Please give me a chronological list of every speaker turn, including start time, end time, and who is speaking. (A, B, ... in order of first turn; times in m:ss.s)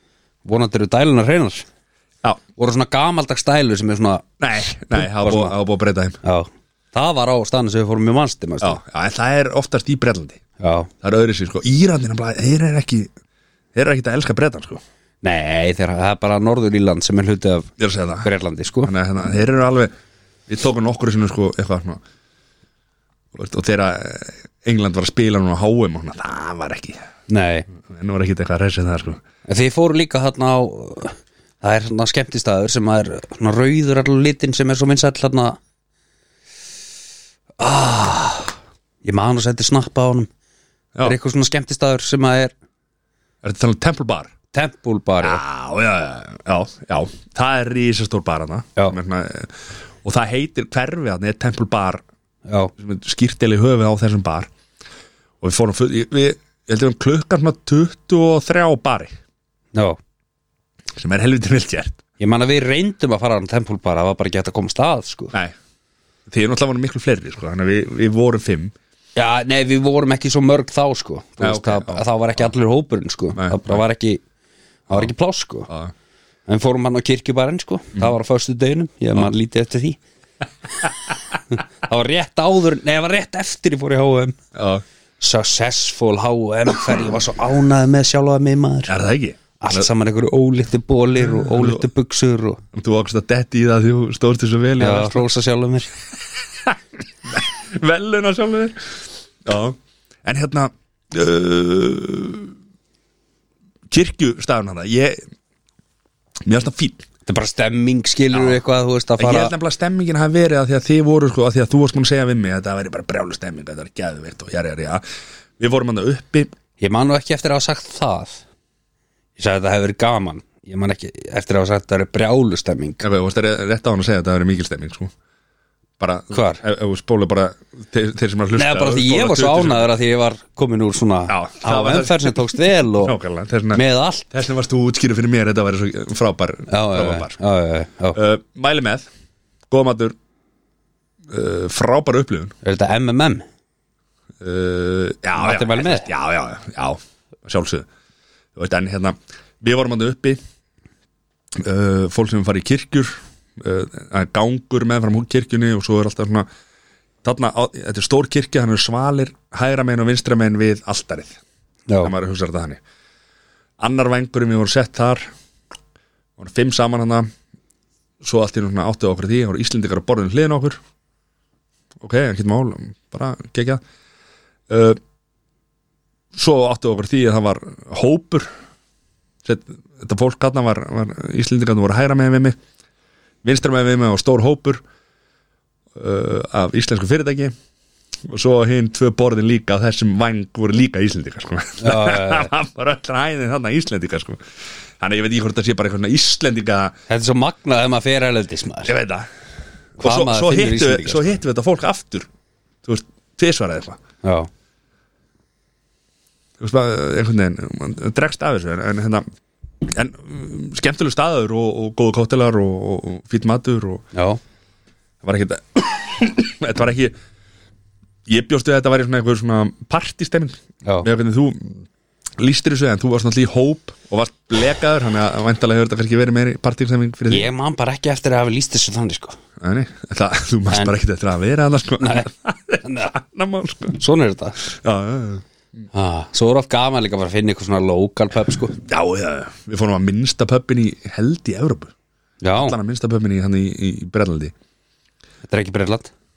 0:00.4-0:01.6 A
0:02.6-0:04.2 A
0:04.4-0:06.2 B
0:04.9-0:05.5 A
0:06.2-0:08.8 A
0:08.6-0:10.4 B
0:10.6-0:10.9 A
0:11.0-0:13.1 B
0:13.7-0:14.8 B
0:15.2-0:17.7 A
0:17.8-0:18.3 B
0:18.2-0:18.9 A
0:18.8-0:19.9 B
0:20.5-0:22.0 B
0:23.3-0:27.1 B
0:27.3-0:27.7 A
0:27.7-0:29.2 B
0:29.5-0:35.6 A
0:37.6-0:40.3 A
0:41.0-0:42.5 A
0:43.4-0:44.3 B
0:44.5-0:45.4 A
0:45.2-0:52.0 B
0:52.4-0:52.7 A
0:52.8-0:54.5 B
0:55.4-0:59.1 B
1:00.9-1:02.0 B
1:02.2-1:05.3 A
1:06.3-1:08.7 B
1:09.2-1:14.2 A
1:11.4-1:12.5 B
1:13.3-1:13.8 B
1:14.9-1:15.7 A
1:16.5-1:20.0 A
1:21.5-1:24.4 A
1:24.5-1:24.8 B
1:25.2-1:29.0 A
1:28.9-1:29.9 B
1:29.6-1:32.6 A
1:31.2-1:31.8 B
1:32.7-1:35.3 B
1:34.8-1:35.9 A
1:36.6-1:42.5 B
1:43.9-1:45.2 B
1:46.4-1:47.1 B
1:47.2-1:49.5 A
1:48.3-1:48.6 B
1:49.2-1:55.0 B
1:55.6-1:56.5 B
1:56.8-1:58.4 A
1:59.4-2:03.0 A
2:03.0-2:05.1 B
2:06.0-2:09.9 B
2:06.3-2:06.6 A
2:08.6-2:13.1 A
2:11.3-2:17.3 B
2:13.7-2:14.3 A
2:16.7-2:18.2 A
2:18.1-2:19.1 B
2:19.7-2:20.1 B
2:21.3-2:22.5 B
2:22.6-2:23.4 A
2:24.4-2:27.9 B
2:25.4-2:26.1 A
2:28.5-2:30.4 B
2:31.5-2:36.5 B
2:37.2-2:41.4 B
2:41.9-2:42.1 A
2:42.0-2:42.8 B
2:43.8-2:45.3 B
2:46.4-2:47.3 B
2:48.2-2:50.8 B
2:52.0-2:53.8 B
2:54.7-2:55.0 B
2:56.3-2:58.5 B
2:59.4-3:02.6 B
3:03.4-3:04.8 B
3:05.9-3:07.5 B
3:08.2-3:14.4 B
3:11.8-3:12.5 A
3:15.0-3:16.9 B
3:17.1-3:18.9 A
3:18.8-3:19.3 B
3:20.0-3:22.3 B
3:20.0-3:21.3 A
3:22.8-3:24.0 B
3:24.2-3:24.5 A
3:26.6-3:29.2 B
3:29.8-3:34.0 B
3:34.1-3:34.4 A
3:35.2-3:37.1 B
3:38.3-3:41.8 B
3:42.4-3:47.5 B
3:47.3-3:49.4 A
3:49.6-3:54.0 B
3:52.0-3:52.3 A
3:52.8-3:53.1 A
3:54.0-3:54.6 A
3:54.6-3:55.4 B
3:55.9-3:58.8 A
3:58.8-4:01.9 B
4:02.4-4:02.8 A
4:02.6-4:04.5 B
4:05.5-4:06.1 A